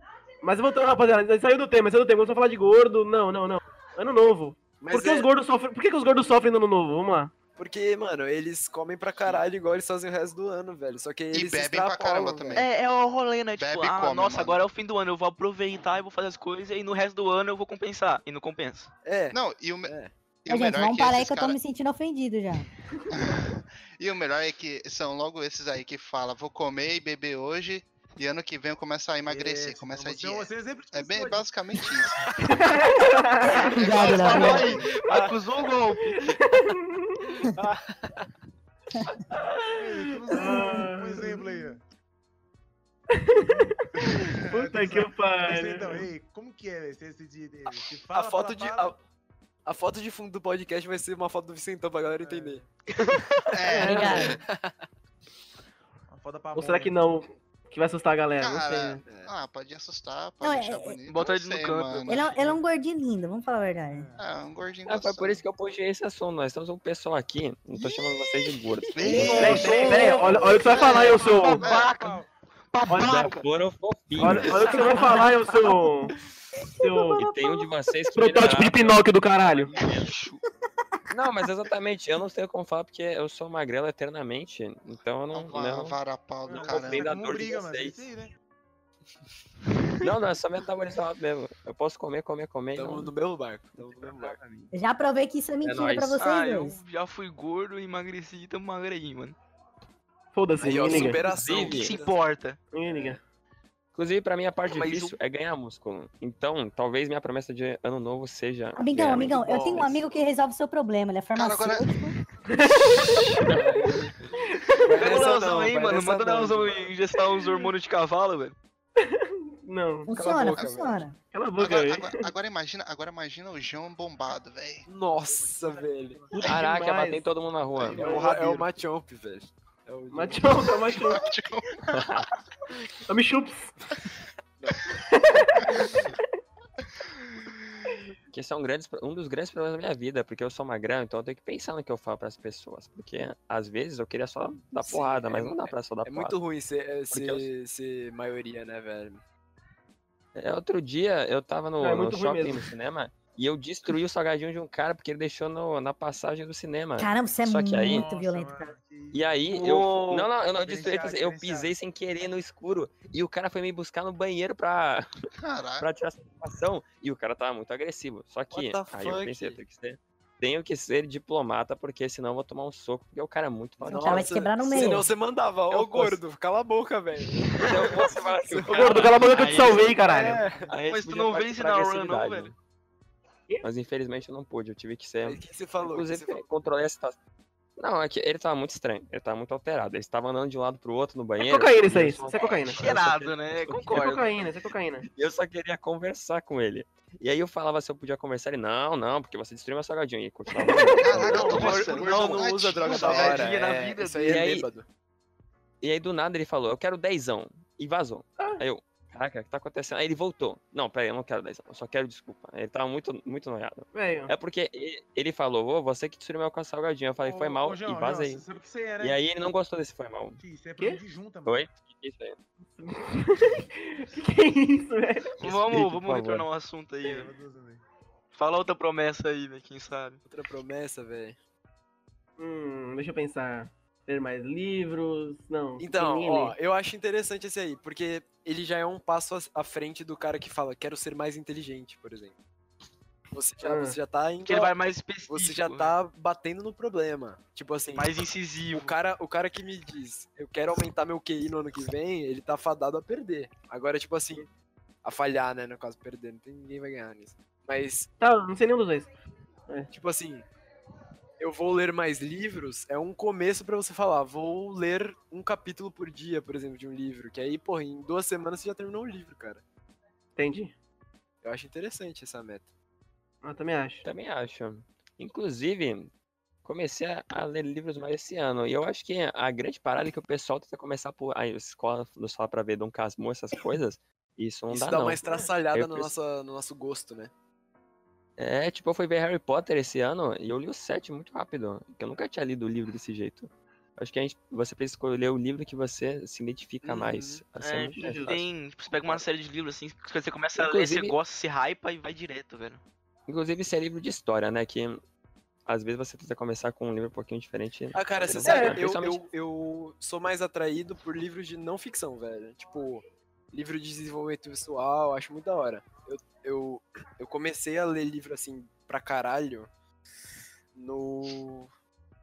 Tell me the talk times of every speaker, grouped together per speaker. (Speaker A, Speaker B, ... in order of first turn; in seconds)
Speaker A: 0.4-7.3, 32.4-33.8, 36.1-37.3, 39.3-39.7, 40.3-41.5, 43.1-46.1, 53.7-54.4, 56.5-59.0, 69.2-71.7, 72.9-73.3, 74.2-76.2, 76.8-77.2, 78.2-79.7, 86.5-86.8, 100.3-101.2, 102.7-103.2, 112.5-113.3, 114.5-115.0, 119.0-120.1, 121.3-122.2, 126.3-127.3, 127.8-128.7, 130.1-131.2, 133.1-133.8, 135.1-136.2, 151.8-152.7, 178.7-180.4, 191.4-192.8, 193.9-195.1, 200.7-201.7, 213.9-214.3, 220.8-221.0, 222.8-225.3, 232.4-236.6, 243.6-244.0, 258.2-259.1, 270.4-270.7, 273.4-274.1, 298.0-298.4, 308.4-308.8
Speaker B: 4.8-5.3, 7.6-12.7, 19.1-20.1, 37.5-38.2, 48.1-49.0, 49.6-52.7, 53.4-54.8, 59.1-59.3, 67.7-69.4, 92.8-94.4, 100.6-102.2, 102.9-103.2, 109.1-110.0, 113.0-114.2, 114.8-116.8, 120.1-121.0, 124.9-126.3, 127.8-130.8, 144.8-149.2, 168.5-169.6, 173.8-178.8, 180.0-180.7, 185.2-186.4, 201.5-204.8, 230.3-231.4, 235.8-242.3, 243.3-244.7, 245.3-248.1, 248.7-254.5, 255.0-258.1, 259.9-260.5, 261.4-269.6, 271.4-272.7, 284.7-287.3, 296.9-297.4, 307.9-319.7, 320.8-321.7
Speaker C: 11.3-12.7, 13.6-14.6, 19.3-21.6, 23.1-32.3, 33.7-34.8, 53.5-54.4, 58.4-62.3, 64.2-65.4, 69.0-72.0, 85.3-87.2, 111.3-112.2, 121.6-124.9, 130.9-132.3, 165.4-165.9, 201.0-203.6
Speaker D: 12.6-18.9, 33.9-36.4, 61.1-62.5, 69.2-70.6, 71.2-72.2, 72.7-73.5, 74.3-75.3, 79.8-80.4, 96.2-99.4, 101.5-102.6, 104.7-105.2, 114.9-118.5, 159.5-160.3, 178.7-179.9, 180.8-182.5, 192.8-194.4, 201.3-204.5, 225.4-227.3, 228.3-230.2, 244.5-245.9, 247.9-248.9, 296.8-302.8
Speaker E: 20.5-22.7, 33.5-34.8, 40.4-40.8, 53.8-54.4, 60.4-61.0, 62.1-64.1, 76.8-77.6, 94.7-96.8, 108.8-112.1, 120.1-121.2, 157.0-158.7, 173.9-175.1
Speaker F: 29.3-31.5, 34.0-34.9, 39.8-41.8, 43.3-49.0, 52.2-52.7, 56.1-57.1, 63.9-64.2, 69.2-72.3, 86.5-88.3, 125.2-126.6, 157.8-159.3, 160.5-161.8, 217.2-219.3, 220.4-221.7, 227.0-227.8
Speaker G: 64.8-69.6, 73.0-75.1, 77.2-80.1, 81.1-86.0, 86.8-88.0, 90.0-93.1, 93.8-94.7, 95.6-96.2, 100.8-101.9, 104.0-109.9, 126.4-128.1, 131.9-132.3, 138.3-146.4, 147.1-147.5, 150.4-158.1, 159.1-165.1, 165.8-174.4, 175.7-176.2, 177.6-179.9, 180.7-182.6, 183.6-187.2, 187.8-193.8, 195.1-201.7, 204.3-204.7, 205.8-218.4, 219.0-220.4, 221.4-222.4, 225.4-226.5, 274.0-276.1, 276.6-285.2, 285.7-286.1, 288.4-298.4, 300.6-301.2, 303.3-305.0, 305.7-309.3